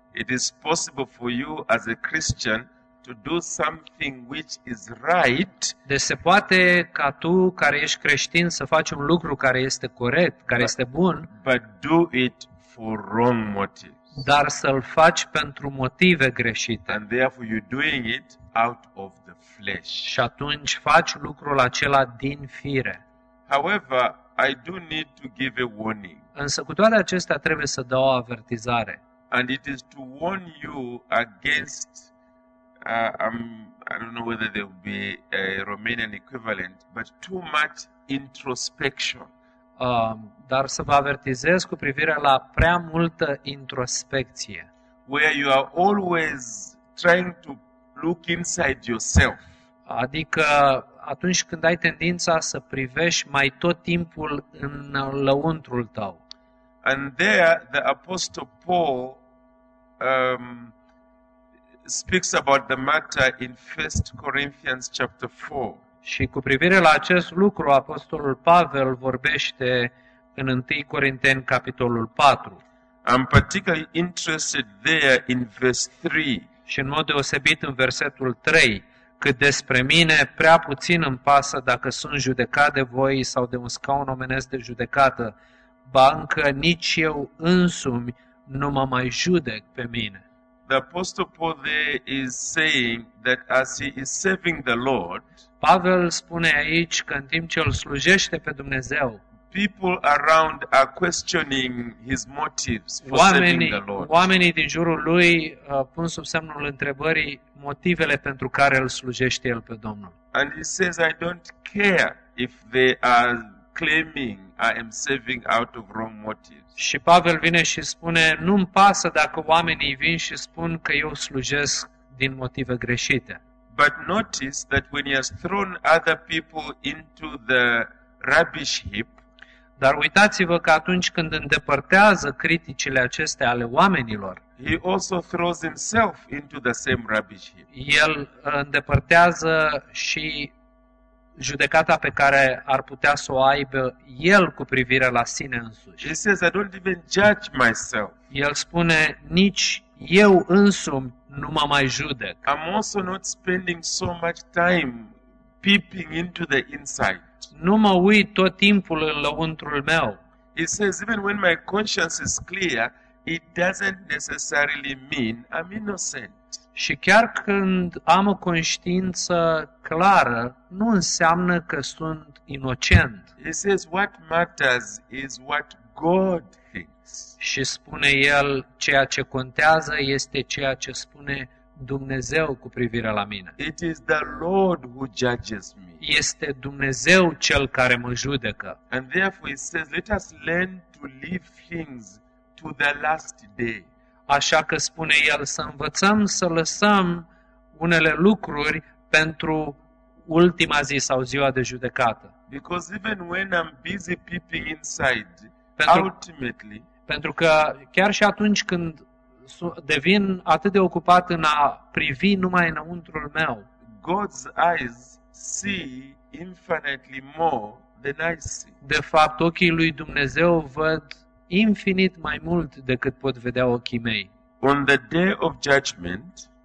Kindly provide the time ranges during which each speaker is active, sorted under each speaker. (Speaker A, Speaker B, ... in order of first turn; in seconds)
Speaker A: 0.1-5.7, 11.3-14.1, 16.9-20.2, 23.5-26.2, 29.3-32.1, 32.8-39.3, 45.1-49.5, 56.8-59.2, 60.0-60.7, 61.9-65.8, 73.0-76.5, 90.7-95.2, 99.5-104.1, 110.3-116.7, 123.7-129.2, 134.6-137.7, 146.0-148.2, 152.5-157.3, 160.5-166.4, 173.4-177.2, 183.6-186.0, 188.9-193.9, 202.5-206.9, 213.9-218.8, 224.6-226.5
Speaker B: 5.9-11.3, 14.1-17.0, 20.0-23.0, 26.4-29.0, 39.8-44.7, 49.9-56.2, 66.0-72.6, 76.7-85.3, 85.9-90.2, 95.6-99.2, 103.0-110.1, 116.8-123.4, 129.8-134.4, 137.7-140.5, 141.4-146.1, 148.3-152.4, 157.5-160.2, 166.8-173.3, 177.4-183.5, 186.0-188.8, 194.3-202.3, 205.8-206.1, 207.1-213.7, 218.8-224.3